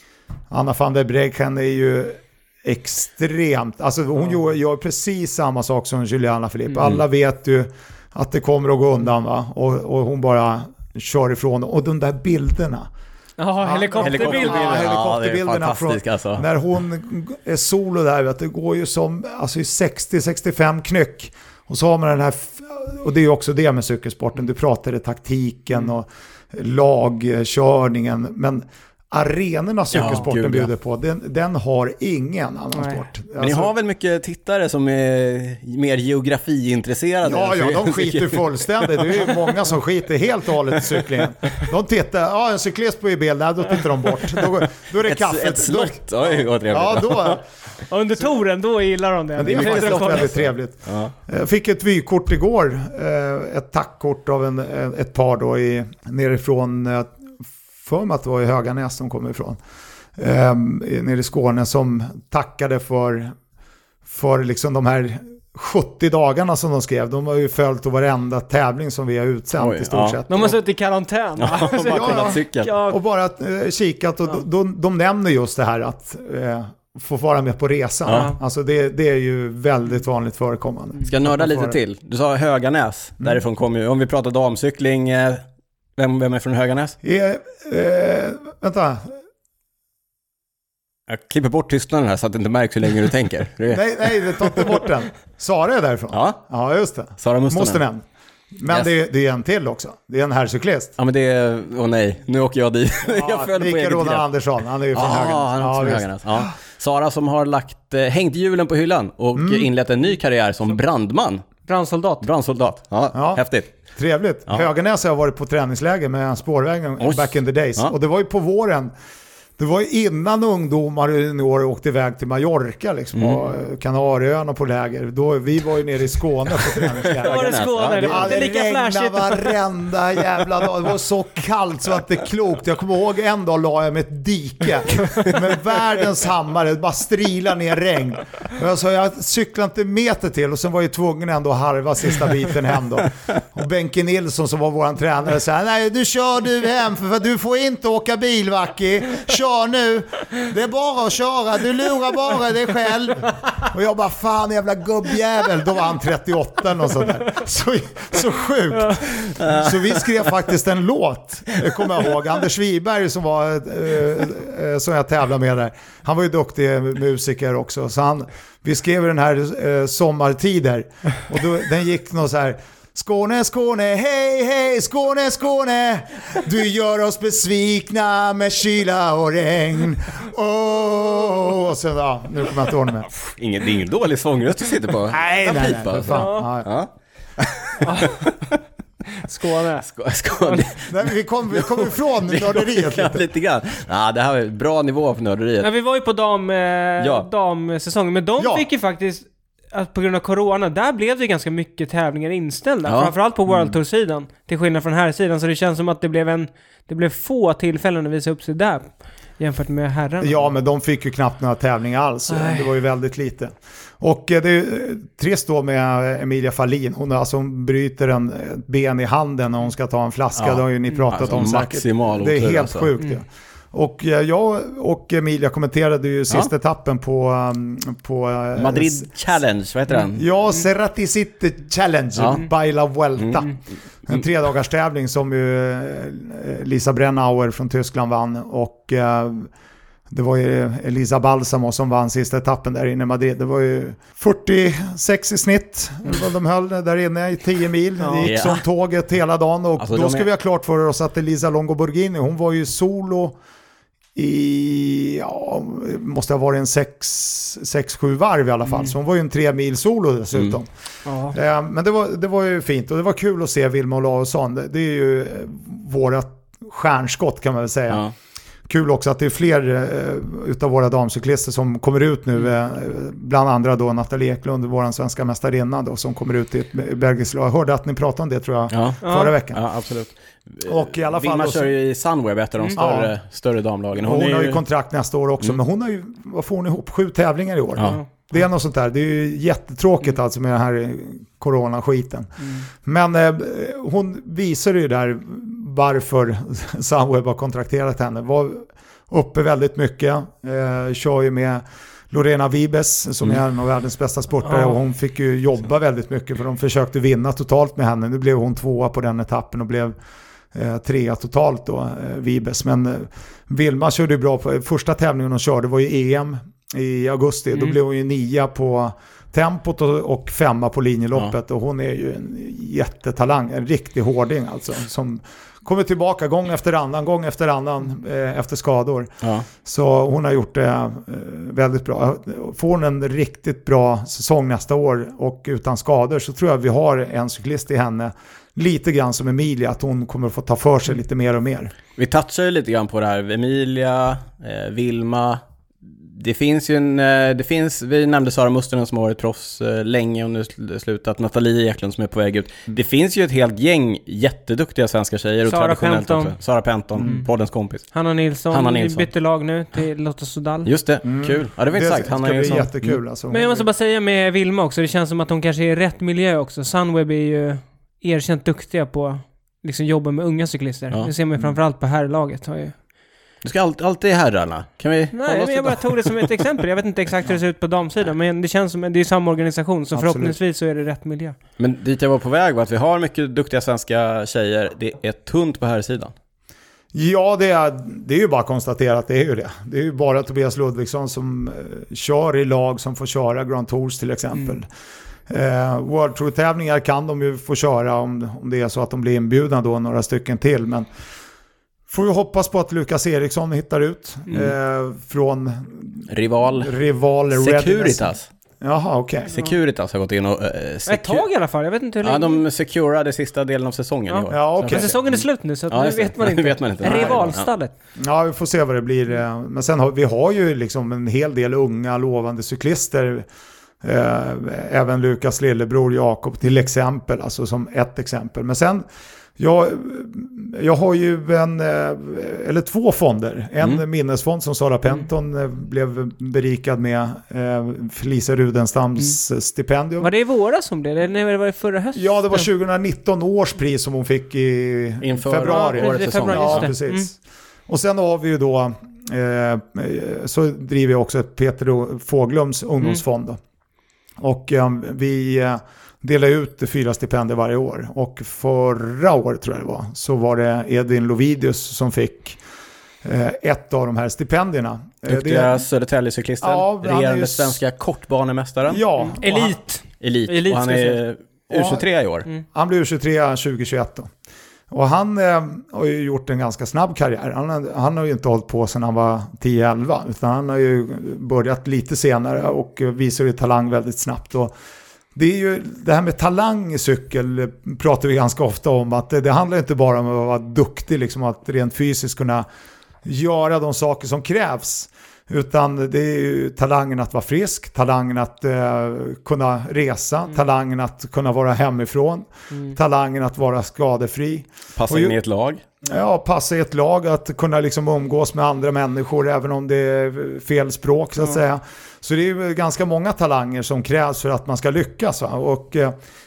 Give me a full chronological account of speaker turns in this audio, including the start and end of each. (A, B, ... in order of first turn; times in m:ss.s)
0:00.5-0:12.9 A
0:13.4-0:14.9 B
0:13.6-0:33.7 A
0:14.0-0:16.4 C
0:29.9-0:30.7 C
0:32.7-0:33.0 B
0:33.4-0:39.4 C
0:37.2-0:47.4 A
0:45.0-0:47.4 C
0:47.9-0:50.4 B
0:49.4-0:59.6 A
0:49.5-0:51.1 C
1:00.2-1:03.3 A
1:04.1-1:10.6 A
1:09.6-1:10.2 C
1:10.3-1:13.0 B
1:11.4-1:12.7 C
1:11.8-1:21.8 A
1:18.0-1:18.3 C
1:18.1-1:18.4 B
1:21.0-1:25.4 C
1:26.0-1:27.0 C
1:27.0-1:29.2 A
1:31.1-1:34.5 C
1:33.7-1:38.0 A
1:36.1-1:36.4 C
1:37.2-1:37.8 C
1:38.6-1:40.9 A
1:41.0-1:44.2 C
1:43.0-1:46.5 A
1:44.9-1:51.4 C
1:49.3-1:49.7 A
1:51.7-1:52.2 B
1:52.2-1:53.7 C
1:53.1-1:53.4 A
1:53.9-1:58.9 A
1:57.0-1:57.9 C
1:59.6-3:03.1 A
2:03.2-2:03.4 C
2:06.8-2:08.4 C
2:07.2-2:09.6 B
2:39.4-2:39.7 C
3:03.1-3:08.6 C
3:05.1-3:06.7 A
3:05.9-3:06.5 B
3:07.8-3:08.2 B
3:09.2-3:10.7 B
3:09.4-3:15.7 C
3:10.8-3:13.2 A
3:15.6-3:30.4 B
3:17.0-3:17.3 C
3:18.4-3:18.6 A
3:22.8-3:23.1 C
3:30.2-3:49.1 A
3:32.3-3:32.7 B
3:40.3-3:42.9 C
3:48.5-3:50.3 C
3:50.2-3:53.5 A
3:52.2-3:52.4 C
3:53.2-3:53.4 C
3:54.0-3:59.5 A
4:00.1-4:13.4 A
4:08.0-4:08.3 B
4:08.2-4:08.6 C
4:09.8-4:10.3 C
4:14.1-4:20.7 A
4:18.7-4:18.9 B
4:21.0-4:21.3 B
4:21.3-4:28.0 A
4:28.7-4:39.6 A
4:38.7-4:44.6 C
4:39.0-4:39.3 B
4:40.6-4:41.7 A
4:42.8-4:43.1 A
4:44.0-5:09.9 A
5:04.4-5:04.8 B
5:10.5-5:41.7 A
5:29.2-5:29.5 C
5:42.0-5:45.4 C
5:46.0-5:57.9 C
5:55.5-5:56.3 B
5:57.0-5:57.2 A
5:57.9-6:00.7 B
5:58.5-5:59.1 C
6:00.6-6:03.0 C
6:01.0-6:03.7 A
6:03.3-6:12.8 B
6:13.4-6:16.3 C
6:15.1-6:21.4 B
6:19.9-6:20.4 A
6:21.6-6:26.1 C
6:26.9-6:34.7 A
6:35.3-6:40.9 A
6:41.9-6:49.3 A
6:46.1-6:46.7 C
6:47.3-6:48.3 C
6:49.3-6:51.2 C
6:50.9-6:52.4 B
6:52.0-6:57.5 C
6:54.1-6:57.7 B
6:54.3-6:54.8 A
6:56.8-6:57.3 A
6:58.0-7:03.3 A
7:03.8-7:08.8 A
7:09.4-7:20.1 A
7:20.0-7:22.5 B
7:21.9-7:27.2 A
7:25.0-7:26.7 C
7:25.4-7:27.1 B
7:27.7-7:33.4 A
7:34.2-7:42.4 A
7:43.0-7:45.6 A
7:45.0-7:48.8 C
7:46.4-7:47.6 A
7:48.7-7:49.6 A
7:49.0-7:51.0 B
7:50.0-7:52.3 C
7:51.5-7:51.8 A
7:52.5-7:54.1 A
7:54.7-8:04.5 A
8:05.1-8:12.4 A
8:13.0-8:25.2 A
8:24.8-8:25.6 C
8:25.8-8:35.9 A